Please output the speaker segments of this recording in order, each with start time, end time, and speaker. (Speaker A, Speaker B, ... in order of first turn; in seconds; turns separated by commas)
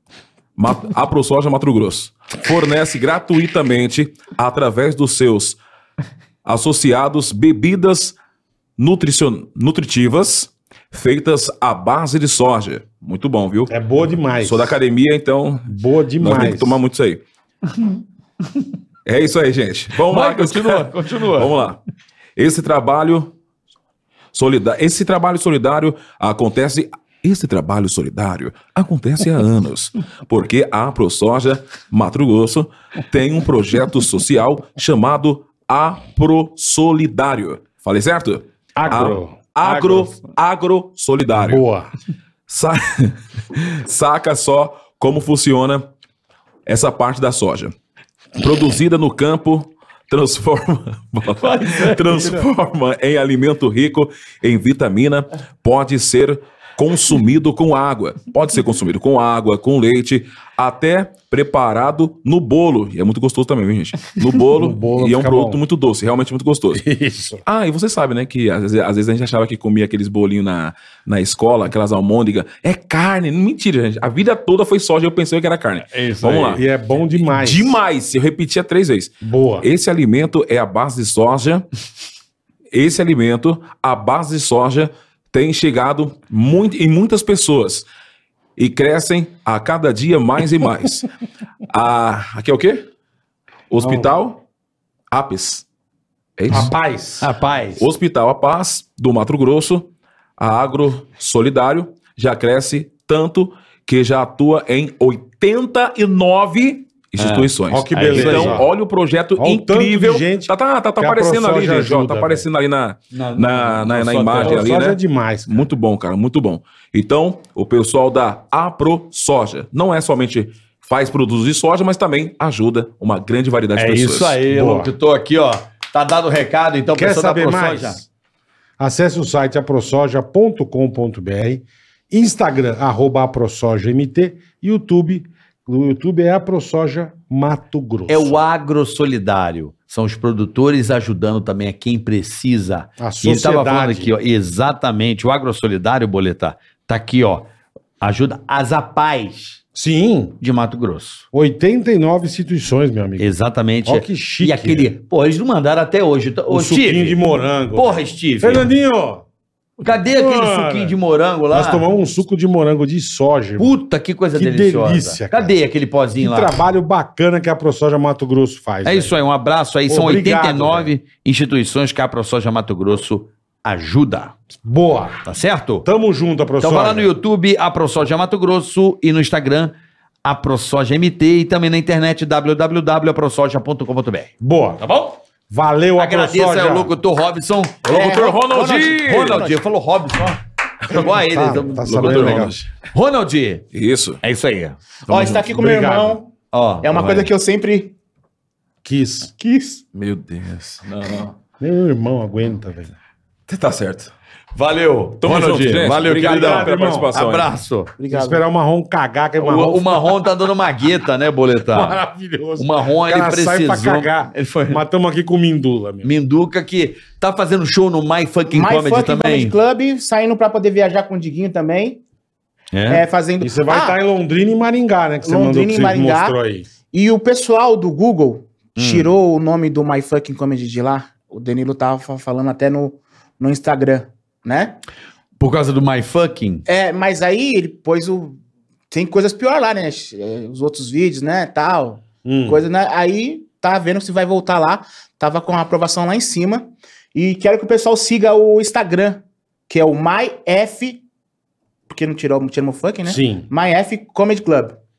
Speaker A: 0.6-5.6, Speaker A: 6.4-8.2, Speaker A: 8.8-13.8, Speaker B: 13.7-14.8, Speaker A: 14.4-17.2, Speaker B: 15.7-16.8, Speaker A: 19.1-21.8, Speaker C: 20.1-21.6, Speaker A: 22.4-23.3, Speaker A: 24.3-41.6, Speaker B: 38.8-40.2, Speaker B: 41.4-41.9, Speaker A: 42.5-45.9, Speaker A: 46.7-47.7, Speaker A: 48.4-66.8, Speaker C: 51.4-52.5, Speaker B: 64.5-65.6, Speaker B: 66.7-67.4, Speaker A: 67.4-76.6, Speaker C: 75.9-76.6, Speaker B: 76.4-77.7, Speaker A: 77.2-81.7, Speaker B: 79.2-79.7, Speaker A: 82.7-87.9, Speaker A: 88.6-91.0, Speaker A: 91.7-92.8, Speaker A: 93.7-94.4, Speaker B: 93.8-94.1, Speaker A: 95.1-95.7, Speaker A: 96.4-96.7, Speaker B: 96.5-97.3, Speaker C: 97.2-97.8, Speaker A: 97.8-124.4, Speaker C: 107.2-108.7, Speaker B: 107.7-108.7, Speaker B: 109.4-112.5, Speaker C: 113.1-114.7, Speaker B: 114.4-115.7, Speaker C: 123.8-128.0, Speaker B: 124.5-124.9, Speaker B: 127.0-128.1, Speaker B: 128.8-138.4, Speaker C: 138.1-149.6, Speaker B: 143.0-144.1, Speaker B: 149.7-150.4, Speaker C: 150.4-151.2, Speaker B: 151.3-153.3, Speaker C: 153.2-157.2, Speaker B: 153.8-154.9, Speaker B: 156.5-159.2, Speaker C: 157.7-158.7, Speaker C: 159.8-161.9, Speaker B: 159.9-161.0, Speaker B: 161.5-163.8, Speaker C: 163.6-166.6, Speaker B: 164.3-165.6, Speaker B: 166.2-169.2, Speaker C: 168.8-174.3, Speaker B: 169.9-170.9, Speaker B: 174.5-175.2, Speaker C: 175.2-175.9, Speaker B: 175.8-177.1, Speaker C: 176.6-185.2, Speaker B: 184.4-184.8, Speaker B: 185.5-186.9, Speaker C: 186.0-193.7, Speaker D: 187.9-189.6, Speaker A: 188.0-189.5, Speaker B: 190.9-192.6, Speaker A: 191.8-192.7, Speaker A: 193.7-194.2, Speaker C: 194.2-195.3, Speaker D: 195.1-197.9, Speaker B: 195.6-196.2, Speaker C: 196.5-197.3, Speaker B: 198.8-199.3, Speaker D: 199.4-199.8, Speaker A: 200.0-201.3, Speaker C: 200.0-200.8, Speaker B: 201.6-202.9, Speaker A: 203.5-204.1, Speaker C: 204.6-207.9, Speaker A: 205.2-207.5, Speaker B: 205.9-207.1, Speaker D: 208.0-208.4, Speaker B: 208.1-210.2, Speaker C: 209.4-212.0, Speaker B: 211.7-216.1, Speaker C: 212.6-214.8, Speaker C: 216.0-219.6, Speaker D: 218.5-222.0, Speaker C: 222.7-223.0, Speaker D: 222.9-224.0, Speaker B: 223.4-226.7, Speaker D: 225.2-226.4, Speaker D: 226.9-234.8, Speaker C: 228.8-229.1, Speaker C: 235.4-236.7, Speaker D: 236.7-238.4, Speaker D: 238.9-251.0, Speaker B: 242.2-242.6, Speaker D: 251.9-254.8, Speaker B: 253.1-253.5